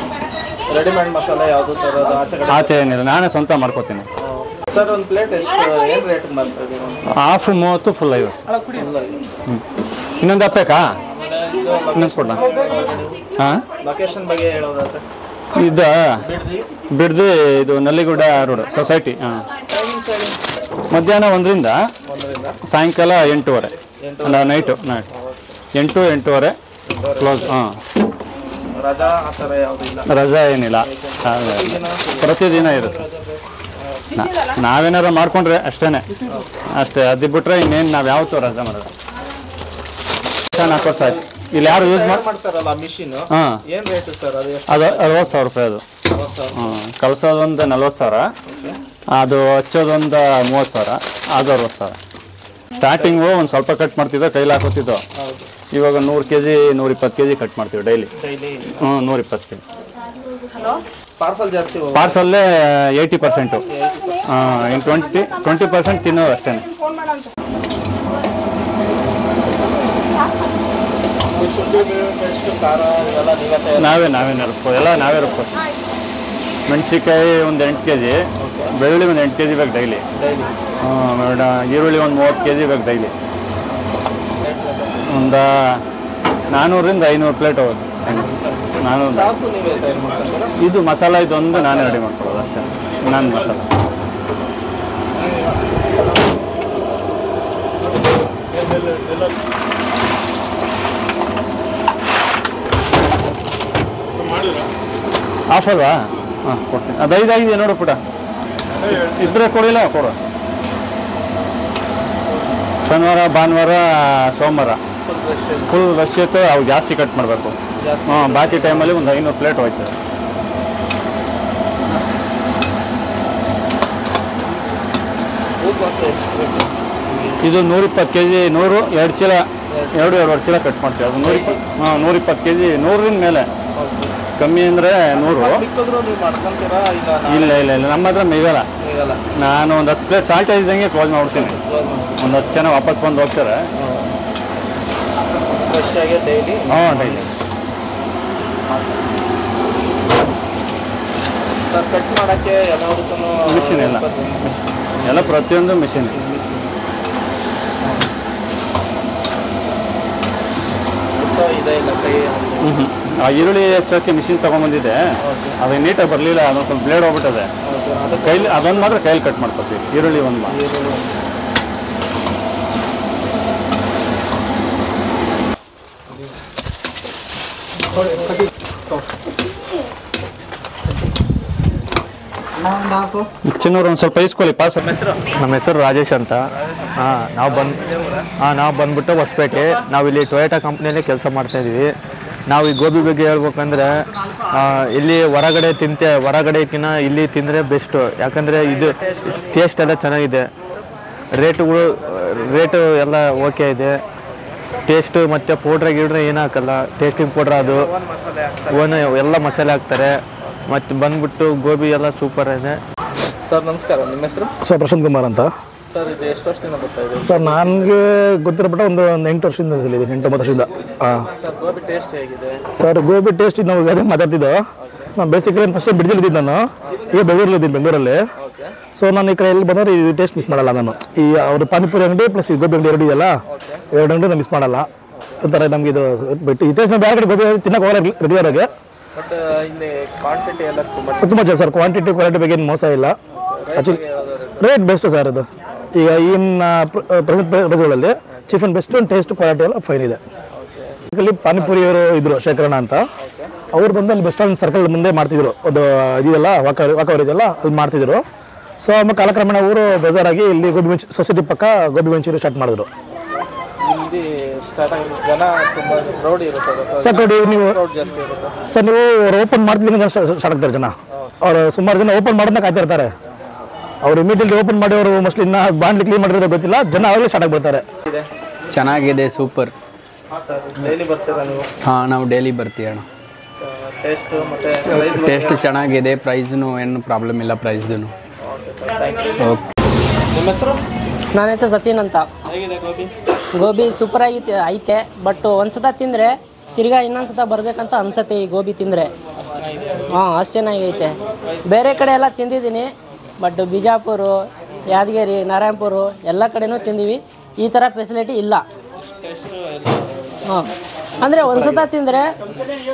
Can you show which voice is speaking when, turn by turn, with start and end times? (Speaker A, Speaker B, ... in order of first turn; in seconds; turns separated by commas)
Speaker A: 0.7-2.9, Speaker B: 2.5-4.1, Speaker A: 4.2-7.2, Speaker B: 7.1-8.4, Speaker A: 8.7-9.2, Speaker B: 10.2-10.8, Speaker A: 11.1-13.2, Speaker B: 11.9-12.4, Speaker A: 13.8-15.1, Speaker B: 15.6-15.9, Speaker A: 16.2-16.7, Speaker B: 17.0-19.4, Speaker A: 18.2-18.9, Speaker A: 19.7-20.4, Speaker B: 20.9-21.8, Speaker A: 22.1-22.6, Speaker B: 22.7-25.1, Speaker A: 24.0-25.6, Speaker B: 25.8-26.6, Speaker A: 26.9-27.6, Speaker B: 27.2-27.8, Speaker A: 28.7-30.1, Speaker B: 30.1-33.0, Speaker A: 30.8-34.0, Speaker B: 34.1-36.1, Speaker A: 36.3-36.7, Speaker B: 36.7-38.9, Speaker B: 40.5-42.3, Speaker A: 40.5-45.4, Speaker B: 44.7-45.8, Speaker A: 46.1-46.8, Speaker B: 46.6-48.3, Speaker A: 48.5-48.8, Speaker B: 49.1-52.0, Speaker B: 52.7-55.0, Speaker A: 52.9-53.2, Speaker A: 55.2-55.5, Speaker B: 55.7-58.1, Speaker A: 58.2-58.9, Speaker B: 58.8-59.6, Speaker A: 61.2-62.3, Speaker B: 62.0-63.7, Speaker A: 63.6-64.3, Speaker B: 64.3-66.7, Speaker A: 71.3-74.5, Speaker B: 73.8-75.5, Speaker B: 76.7-78.2, Speaker A: 78.4-78.8, Speaker B: 78.8-80.0, Speaker A: 80.1-80.5, Speaker B: 80.8-83.1, Speaker A: 83.7-85.4, Speaker B: 85.1-85.5, Speaker B: 86.5-88.3, Speaker A: 88.1-90.5, Speaker B: 88.8-89.3, Speaker B: 90.6-93.7, Speaker A: 91.5-92.9, Speaker B: 105.5-108.0, Speaker B: 108.9-110.2, Speaker B: 112.8-114.8, Speaker A: 115.0-115.8, Speaker B: 115.7-120.0, Speaker A: 117.8-119.1, Speaker A: 125.6-127.5, Speaker B: 127.4-129.4, Speaker A: 129.7-130.4, Speaker B: 130.0-133.5, Speaker A: 131.2-131.6, Speaker A: 133.8-134.2, Speaker B: 134.4-135.7, Speaker A: 135.1-137.9, Speaker B: 137.3-138.7, Speaker A: 138.8-139.2, Speaker B: 139.4-141.6, Speaker A: 141.3-142.6, Speaker B: 142.2-143.6, Speaker A: 143.8-144.2, Speaker A: 145.5-147.3, Speaker B: 146.7-147.3, Speaker A: 148.7-149.0, Speaker A: 151.7-156.7, Speaker B: 153.5-156.1, Speaker A: 157.8-158.1, Speaker A: 161.1-162.8, Speaker B: 162.6-165.0, Speaker A: 165.2-165.6, Speaker B: 165.6-167.5, Speaker A: 167.7-169.0, Speaker B: 168.2-170.6, Speaker A: 170.0-171.1, Speaker B: 183.5-184.8, Speaker A: 184.8-185.2, Speaker C: 185.4-187.8, Speaker A: 187.4-188.3, Speaker C: 188.4-191.9, Speaker C: 192.5-193.9, Speaker C: 194.5-200.5, Speaker A: 198.6-199.6, Speaker C: 201.4-204.0, Speaker C: 204.9-207.9, Speaker A: 207.5-209.2, Speaker C: 208.7-212.8, Speaker A: 213.4-214.5, Speaker D: 214.6-215.5, Speaker A: 215.9-217.9, Speaker D: 217.2-221.3, Speaker A: 221.2-222.6, Speaker D: 222.8-224.6, Speaker A: 224.8-225.2, Speaker D: 225.2-228.2, Speaker A: 228.4-228.8, Speaker D: 229.0-233.3, Speaker A: 233.5-233.8, Speaker D: 233.9-234.9, Speaker A: 235.1-235.4, Speaker D: 235.4-238.7, Speaker A: 239.1-241.4, Speaker D: 241.2-243.2, Speaker A: 243.3-244.7, Speaker D: 244.6-250.2, Speaker A: 250.5-251.0, Speaker D: 251.1-253.0, Speaker A: 251.6-251.8, Speaker A: 253.2-253.6, Speaker D: 253.7-258.2, Speaker D: 258.8-262.9, Speaker A: 263.8-268.6, Speaker D: 267.0-267.8, Speaker D: 268.7-273.1, Speaker D: 274.0-277.9, Speaker E: 278.7-279.7, Speaker A: 280.3-281.7, Speaker E: 281.9-283.1, Speaker A: 283.6-285.8, Speaker E: 284.9-288.1, Speaker A: 288.4-289.6, Speaker A: 290.3-290.8, Speaker F: 291.3-292.3, Speaker A: 292.5-293.1, Speaker F: 293.6-299.1, Speaker A: 299.4-300.1, Speaker F: 300.1-308.6, Speaker A: 301.4-302.3, Speaker A: 309.0-310.4, Speaker F: 311.2-312.3, Speaker A: 311.4-311.9